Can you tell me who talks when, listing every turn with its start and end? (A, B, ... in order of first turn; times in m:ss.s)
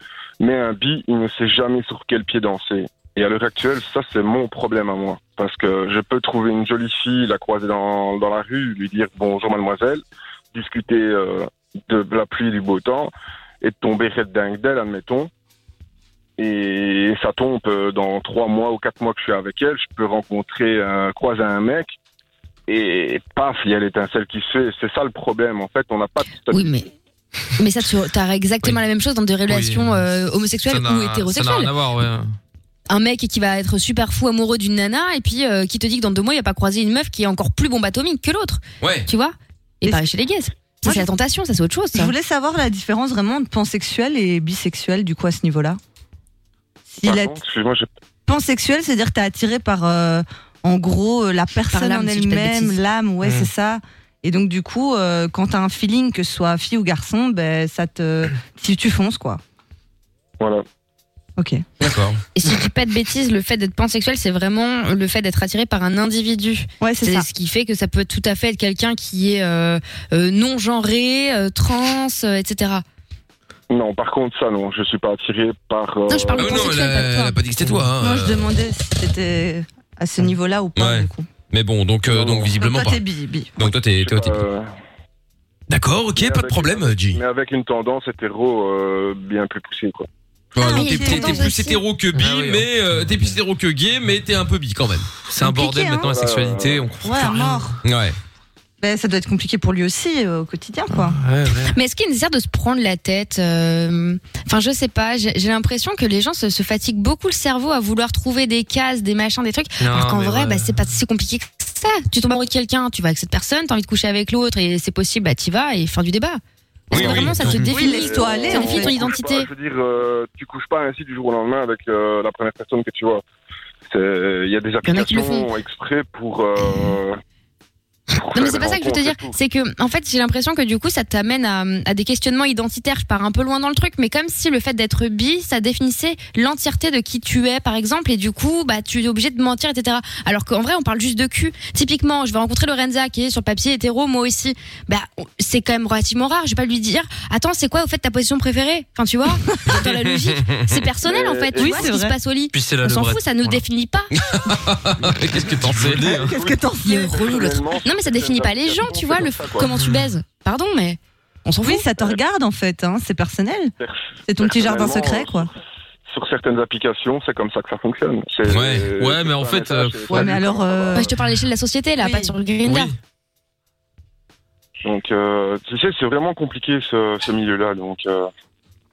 0:00.4-0:13.1 A
0:13.6-0:15.3 A
0:16.4-0:22.0 A
0:22.7-0:26.8 A
0:26.5-0:26.9 B
0:27.6-0:31.7 B
0:29.5-0:30.0 C
0:30.6-0:32.3 C
0:32.9-0:42.1 B
0:38.8-0:39.1 D
0:40.8-0:41.1 E
0:41.9-0:45.8 E
0:46.9-0:47.3 E
0:47.0-0:47.9 A
0:48.3-0:59.4 E
0:51.7-0:52.8 B
1:01.4-1:01.6 E
1:01.8-1:02.2 D
1:02.4-1:12.8 B
1:06.8-1:07.2 E
1:13.7-1:16.8 A
1:16.1-1:17.4 B
1:16.4-1:18.5 D
1:18.0-1:21.3 E
1:20.8-1:23.0 D
1:22.1-1:22.6 A
1:22.5-1:23.5 E
1:23.6-1:24.4 D
1:23.6-1:24.7 A
1:25.7-1:27.2 D
1:26.2-1:30.1 A
1:30.5-1:35.1 D
1:30.6-1:31.8 B
1:30.6-1:31.5 E
1:32.1-1:33.3 C
1:35.3-1:37.6 C
1:35.4-1:36.2 E
1:36.1-1:36.9 A
1:37.0-1:37.8 E
1:37.8-1:38.2 D
1:38.8-1:41.2 E
1:40.9-1:41.7 C
1:41.7-1:59.5 B
1:49.8-1:50.8 C
1:56.9-1:57.6 D
1:56.9-1:57.7 C
1:57.7-1:59.0 E
1:57.8-2:03.2 A
2:03.9-2:07.2 A
2:04.8-2:05.5 B
2:06.6-2:06.9 B
2:08.1-2:09.4 A
2:08.3-2:34.1 B
2:29.8-2:30.8 D
2:31.0-2:31.9 A
2:31.6-2:32.2 E
2:32.5-2:33.6 C
2:34.1-2:36.2 D
2:35.0-2:36.3 C
2:36.0-2:37.4 E
2:36.1-2:36.6 A
2:36.8-2:41.0 B
2:37.2-2:39.7 A
2:41.4-2:43.7 E
2:41.6-2:41.8 B
2:43.8-2:45.4 A
2:44.2-2:45.5 E
2:46.1-2:51.2 A
2:48.4-2:48.9 D
2:49.0-2:50.4 C
2:50.1-2:51.1 E
2:50.9-2:52.9 B
2:52.0-2:52.3 E
2:54.8-2:58.3 A